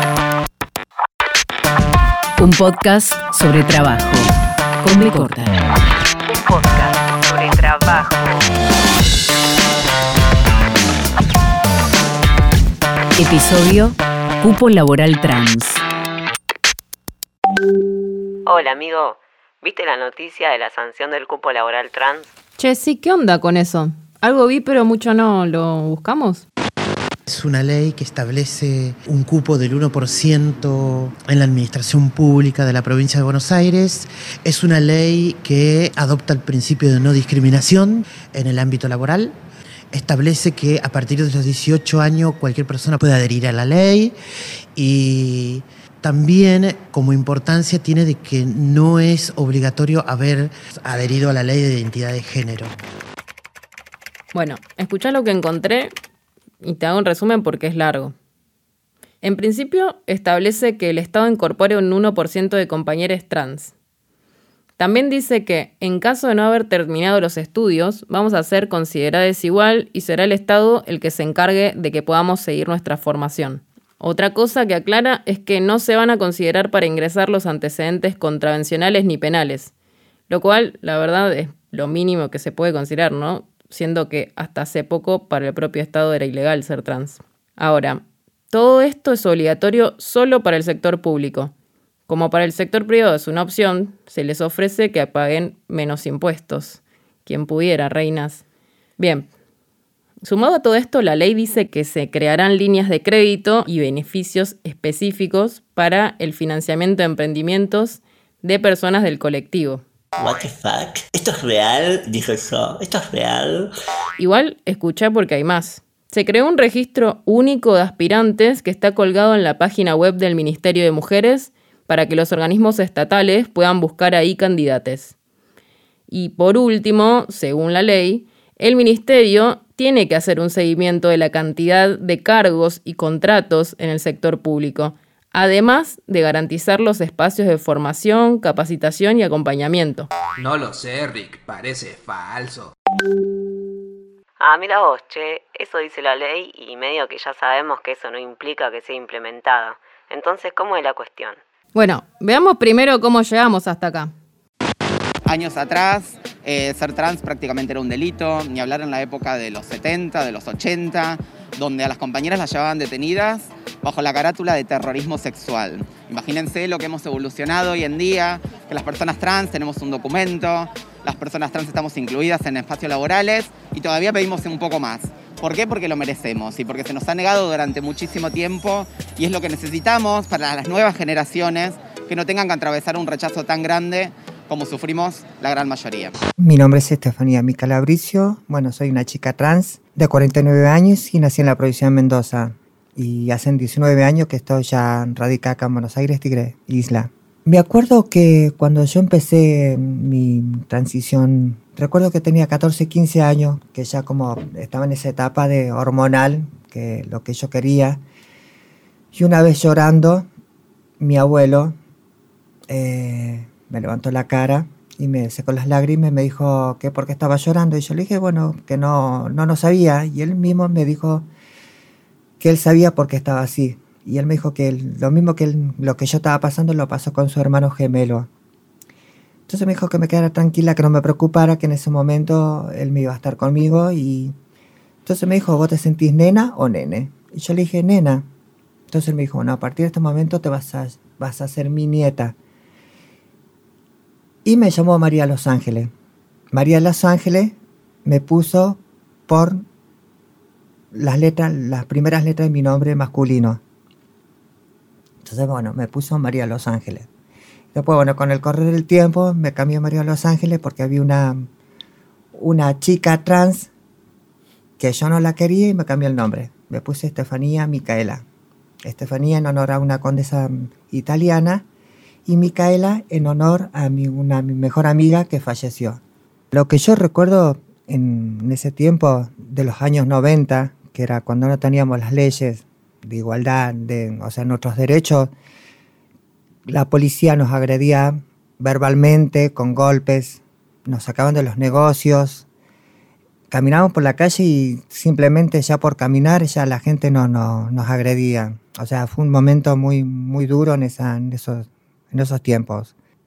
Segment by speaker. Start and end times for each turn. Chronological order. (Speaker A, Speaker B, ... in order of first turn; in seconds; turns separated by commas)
Speaker A: 2.4-4.3, Speaker A: 4.8-5.6, Speaker B: 6.3-8.4, Speaker A: 13.2-15.8, Speaker B: 18.4-22.3, Speaker C: 22.6-26.4, Speaker D: 27.3-39.3, Speaker D: 39.9-44.1, Speaker D: 44.8-52.7, Speaker C: 54.3-55.9, Speaker C: 56.6-58.1, Speaker C: 59.2-63.7, Speaker C: 64.8-79.7, Speaker C: 80.3-91.5, Speaker C: 92.1-98.4, Speaker C: 99.0-99.3, Speaker C: 100.2-109.8, Speaker E: 110.2-113.7, Speaker C: 114.2-125.1, Speaker C: 126.1-140.1, Speaker F: 140.4-142.7, Speaker B: 144.4-151.4, Speaker C: 151.7-154.1, Speaker G: 155.2-186.1, Speaker H: 186.4-208.0, Speaker H: 209.1-210.3, Speaker H: 211.0-211.7, Speaker H: 212.7-221.3, Speaker H: 222.4-228.3, Speaker H: 229.5-234.3, Speaker H: 235.0-238.2, Speaker H: 238.9-242.3, Speaker H: 244.4-245.9, Speaker H: 246.5-249.6, Speaker H: 250.9-253.6, Speaker H: 255.2-257.1, Speaker H: 257.7-261.5, Speaker H: 262.3-263.7, Speaker H: 264.8-268.2, Speaker H: 268.8-271.6, Speaker H: 272.3-276.0, Speaker H: 276.5-285.3, Speaker H: 286.7-292.5, Speaker H: 293.5-302.9